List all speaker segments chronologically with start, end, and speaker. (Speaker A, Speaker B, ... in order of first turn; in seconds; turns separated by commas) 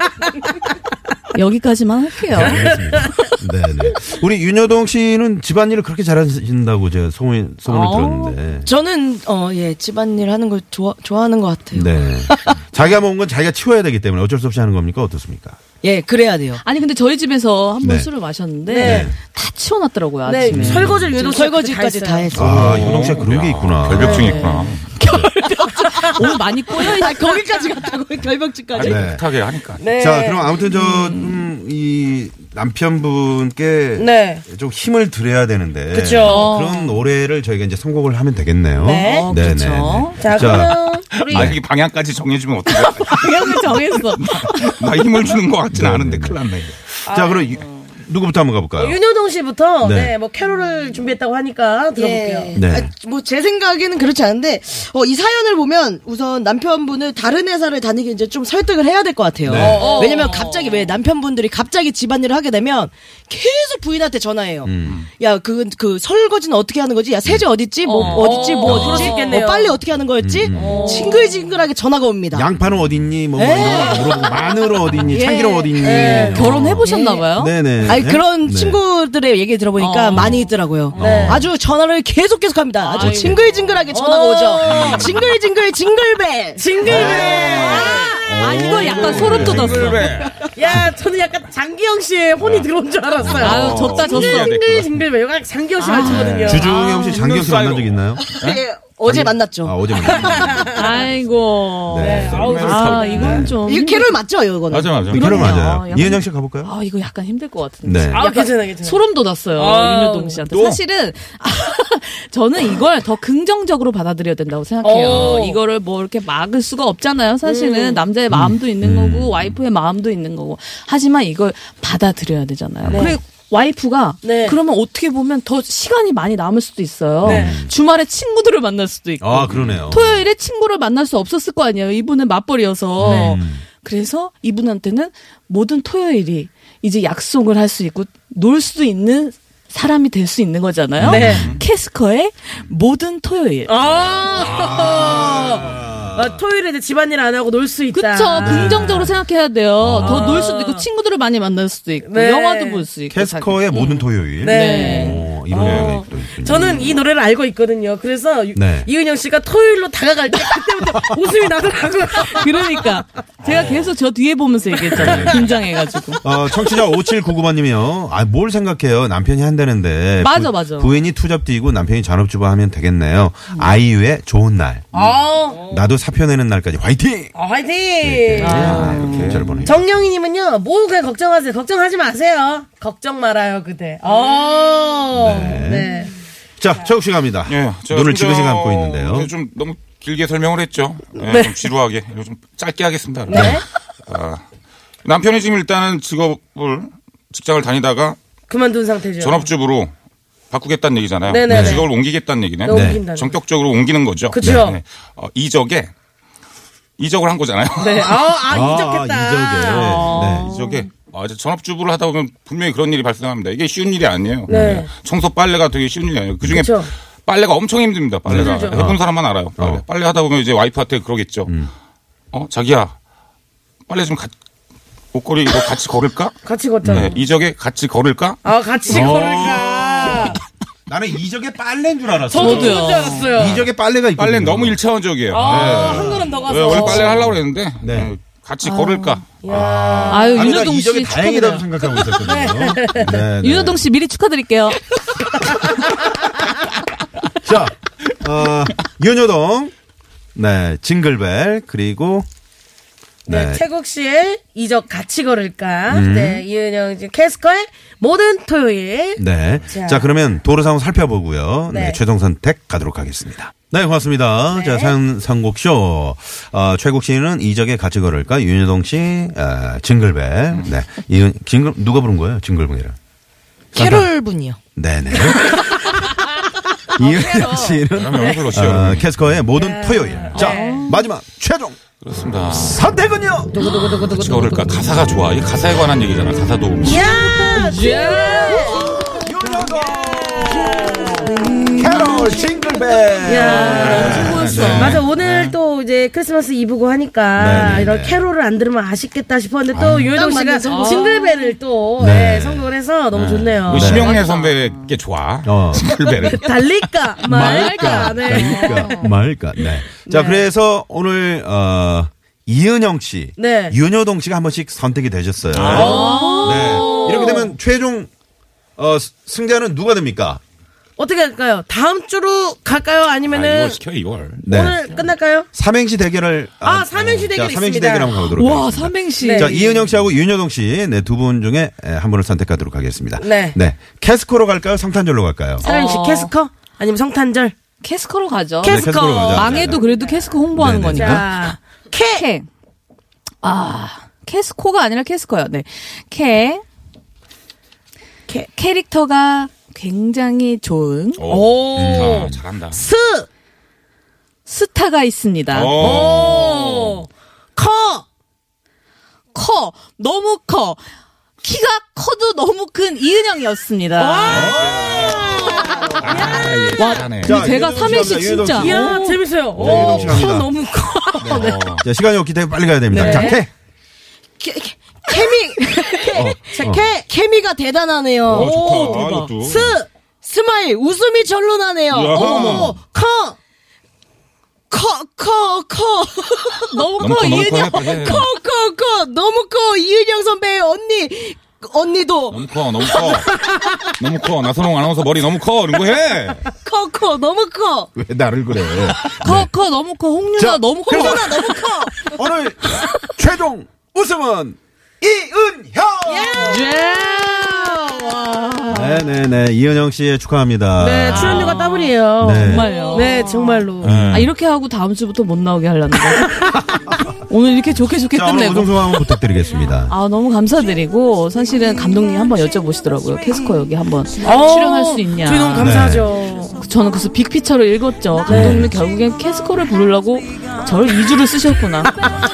Speaker A: 1.3-3.0, Speaker B: 2.3-8.7, Speaker A: 7.7-8.4, Speaker C: 8.7-12.6, Speaker B: 11.7-15.6, Speaker C: 15.8-16.6, Speaker A: 16.6-20.9, Speaker B: 17.8-18.1, Speaker D: 18.7-19.1, Speaker B: 18.8-19.1, Speaker D: 20.2-22.4, Speaker B: 20.5-21.1, Speaker C: 21.1-23.1, Speaker B: 22.3-24.4, Speaker E: 22.6-24.9, Speaker D: 24.0-24.4, Speaker A: 24.0-27.5, Speaker B: 25.0-25.3, Speaker C: 25.8-29.1, Speaker E: 28.7-29.9, Speaker B: 28.8-29.3, Speaker D: 29.8-30.6, Speaker B: 29.9-41.6, Speaker A: 30.7-31.4, Speaker D: 34.0-34.4, Speaker D: 35.9-36.5, Speaker A: 36.2-37.0, Speaker D: 38.8-39.3, Speaker A: 38.9-40.2, Speaker D: 40.2-41.6, Speaker E: 41.1-46.9, Speaker A: 42.7-44.8, Speaker B: 45.7-46.4, Speaker D: 47.1-47.6, Speaker B: 47.1-49.0, Speaker D: 48.8-52.6, Speaker B: 49.8-50.1, Speaker C: 52.0-72.5, Speaker B: 52.5-52.9, Speaker B: 59.5-59.9, Speaker D: 59.5-60.5, Speaker A: 59.8-61.0, Speaker B: 64.6-65.0, Speaker A: 67.8-69.2, Speaker B: 68.0-68.9, Speaker D: 68.1-69.8, Speaker B: 70.2-70.8, Speaker D: 70.5-71.4, Speaker A: 70.8-71.2, Speaker B: 72.3-78.8, Speaker C: 73.4-74.4, Speaker D: 73.6-74.0, Speaker C: 75.1-75.7, Speaker A: 75.1-77.6, Speaker D: 75.8-76.5, Speaker C: 76.8-88.0, Speaker A: 79.8-80.5, Speaker B: 80.1-81.5, Speaker D: 81.0-81.5, Speaker A: 82.8-83.5, Speaker D: 83.9-85.2, Speaker E: 84.7-85.3, Speaker D: 86.6-87.9, Speaker E: 86.8-90.8, Speaker B: 86.9-87.4, Speaker A: 87.5-90.3, Speaker B: 88.1-90.9, Speaker D: 90.5-96.7, Speaker E: 92.4-92.7, Speaker B: 93.2-93.8, Speaker E: 93.3-95.0, Speaker A: 93.4-94.6, Speaker A: 95.8-97.2, Speaker E: 96.0-98.6, Speaker B: 96.4-98.3, Speaker C: 98.2-100.5, Speaker B: 99.0-100.7, Speaker D: 100.1-101.0, Speaker A: 100.7-104.2, Speaker B: 101.9-103.6, Speaker D: 102.0-103.5, Speaker C: 103.6-105.5, Speaker E: 104.7-105.5, Speaker B: 105.1-106.7, Speaker A: 105.1-143.9, Speaker B: 107.8-108.2, Speaker D: 108.1-109.0, Speaker D: 109.5-110.5, Speaker E: 110.5-110.8, Speaker D: 114.8-115.6, Speaker D: 117.4-118.0, Speaker B: 118.3-119.6, Speaker B: 122.8-123.2, Speaker D: 122.9-123.2, Speaker D: 124.2-124.6, Speaker B: 127.2-127.7, Speaker D: 127.2-127.6, Speaker B: 129.2-130.2, Speaker B: 133.0-133.6, Speaker D: 133.0-133.4, Speaker B: 141.0-141.6, Speaker D: 141.1-141.6, Speaker E: 141.1-141.6, Speaker D: 143.7-148.9, Speaker B: 144.4-146.4, Speaker A: 147.9-155.3, Speaker B: 148.4-149.2, Speaker B: 149.8-150.4, Speaker D: 150.0-150.9, Speaker D: 152.1-152.9, Speaker B: 153.1-157.0, Speaker D: 154.4-162.8, Speaker E: 155.6-156.0, Speaker B: 158.5-158.9, Speaker A: 162.1-166.2, Speaker E: 163.4-163.9, Speaker D: 164.9-165.7, Speaker B: 164.9-165.6, Speaker B: 166.2-177.4, Speaker A: 170.2-171.0, Speaker D: 174.9-175.8, Speaker D: 177.3-179.0, Speaker B: 178.0-179.8, Speaker A: 178.4-179.5, Speaker E: 178.6-179.7, Speaker D: 179.7-186.1, Speaker B: 185.1-185.9, Speaker B: 186.6-189.3, Speaker E: 187.5-194.4, Speaker D: 191.2-191.7, Speaker D: 193.3-193.7, Speaker B: 193.3-193.6, Speaker E: 195.1-198.2, Speaker D: 198.5-199.5, Speaker E: 199.2-199.9, Speaker E: 200.5-205.9, Speaker D: 201.3-201.9, Speaker B: 201.5-201.9, Speaker D: 202.6-203.4, Speaker B: 202.7-203.0, Speaker D: 204.3-204.8, Speaker B: 204.4-204.8, Speaker E: 207.0-208.2, Speaker D: 207.8-210.4, Speaker B: 208.5-210.6, Speaker A: 209.7-210.8, Speaker E: 210.4-221.5, Speaker D: 214.5-214.9, Speaker B: 214.5-214.9, Speaker D: 216.5-216.9, Speaker B: 218.3-219.0, Speaker D: 218.3-218.8, Speaker B: 219.6-219.8, Speaker B: 221.5-221.7, Speaker E: 222.3-222.9, Speaker E: 223.9-224.3, Speaker E: 225.1-228.4, Speaker D: 226.4-227.2, Speaker B: 226.8-227.1, Speaker D: 228.4-230.4, Speaker B: 228.9-230.3, Speaker B: 230.9-234.8, Speaker D: 232.3-233.6, Speaker A: 232.3-233.3, Speaker E: 234.2-239.2, Speaker D: 235.3-237.3, Speaker B: 235.4-238.2, Speaker A: 238.6-239.2, Speaker D: 239.4-240.6, Speaker B: 239.5-243.8, Speaker A: 240.1-241.7, Speaker D: 242.0-243.2, Speaker A: 243.1-244.9, Speaker B: 247.4-249.7, Speaker B: 250.3-252.3, Speaker B: 253.3-253.6, Speaker D: 253.3-260.1, Speaker B: 255.9-256.4, Speaker B: 259.2-273.0, Speaker D: 261.7-262.0, Speaker D: 264.5-265.0, Speaker B: 273.7-274.1, Speaker C: 273.7-274.6, Speaker B: 274.8-276.0, Speaker C: 275.2-275.6, Speaker B: 276.9-281.8, Speaker A: 277.0-277.8, Speaker E: 277.9-279.1, Speaker D: 278.2-278.5, Speaker D: 279.6-280.9, Speaker A: 280.4-281.1, Speaker E: 282.0-282.8, Speaker B: 282.4-283.6, Speaker D: 283.6-284.5, Speaker E: 283.6-287.3, Speaker A: 283.6-284.4, Speaker D: 286.8-289.0, Speaker A: 287.5-289.3, Speaker B: 288.7-295.0, Speaker D: 289.8-291.7, Speaker A: 291.1-295.0, Speaker C: 291.5-292.0, Speaker D: 293.2-304.0, Speaker E: 293.8-295.5, Speaker B: 297.4-298.2, Speaker E: 299.7-300.1, Speaker C: 300.0-301.1, Speaker A: 300.6-301.6, Speaker B: 302.0-304.2, Speaker E: 303.7-306.7, Speaker A: 303.8-304.9, Speaker B: 305.4-305.9, Speaker D: 305.9-309.1, Speaker A: 307.2-309.1, Speaker B: 307.2-318.1, Speaker D: 310.1-310.5, Speaker D: 313.4-313.8, Speaker E: 315.5-316.1, Speaker D: 315.6-317.5, Speaker A: 315.7-317.4, Speaker B: 318.8-320.4, Speaker D: 321.0-323.8, Speaker E: 323.2-325.1, Speaker D: 324.4-325.5, Speaker B: 324.4-324.9, Speaker B: 325.5-335.7, Speaker D: 326.6-328.2, Speaker A: 328.4-329.6, Speaker D: 329.2-329.9, Speaker D: 333.2-333.6, Speaker A: 335.6-336.3, Speaker D: 335.6-337.6, Speaker A: 337.8-341.5, Speaker D: 338.6-340.3, Speaker B: 338.6-339.8, Speaker B: 340.5-341.3, Speaker D: 340.9-342.2, Speaker A: 342.1-342.5, Speaker A: 343.4-346.6, Speaker A: 348.5-351.4, Speaker E: 351.2-352.9, Speaker D: 351.3-353.3, Speaker B: 351.8-352.4, Speaker A: 354.5-356.0, Speaker E: 355.5-357.0, Speaker D: 355.8-358.1, Speaker A: 359.3-360.8, Speaker A: 361.4-364.6, Speaker D: 364.0-367.1, Speaker B: 364.3-365.6, Speaker A: 365.6-365.9, Speaker E: 366.0-367.8, Speaker A: 366.7-369.2, Speaker B: 367.2-368.9, Speaker D: 368.5-371.6, Speaker B: 369.5-370.5, Speaker E: 369.6-370.2, Speaker A: 369.9-371.4, Speaker B: 371.2-373.5, Speaker E: 371.3-371.9, Speaker D: 372.9-373.4, Speaker A: 372.9-373.4, Speaker C: 374.4-378.6, Speaker B: 376.1-376.9, Speaker D: 376.5-377.0, Speaker E: 378.3-379.8, Speaker D: 378.3-379.9, Speaker A: 378.6-379.4, Speaker C: 380.2-382.8, Speaker E: 381.9-382.8, Speaker D: 382.1-383.3, Speaker C: 384.7-393.9, Speaker A: 386.7-388.2, Speaker E: 387.0-388.3, Speaker E: 392.3-396.4, Speaker C: 396.5-397.9, Speaker B: 398.0-399.5, Speaker A: 399.2-402.2, Speaker B: 400.4-401.3, Speaker C: 400.9-402.1, Speaker B: 402.0-406.6, Speaker D: 406.1-406.7, Speaker A: 406.4-409.0, Speaker B: 408.7-411.6, Speaker D: 410.8-413.9, Speaker A: 411.1-416.5, Speaker B: 412.2-412.7, Speaker B: 413.8-414.3, Speaker E: 413.8-414.3, Speaker A: 417.3-419.1, Speaker B: 418.1-419.9, Speaker A: 419.9-425.9, Speaker D: 424.2-426.6, Speaker B: 425.6-426.1, Speaker A: 426.5-432.0, Speaker D: 428.3-428.7, Speaker B: 428.3-428.7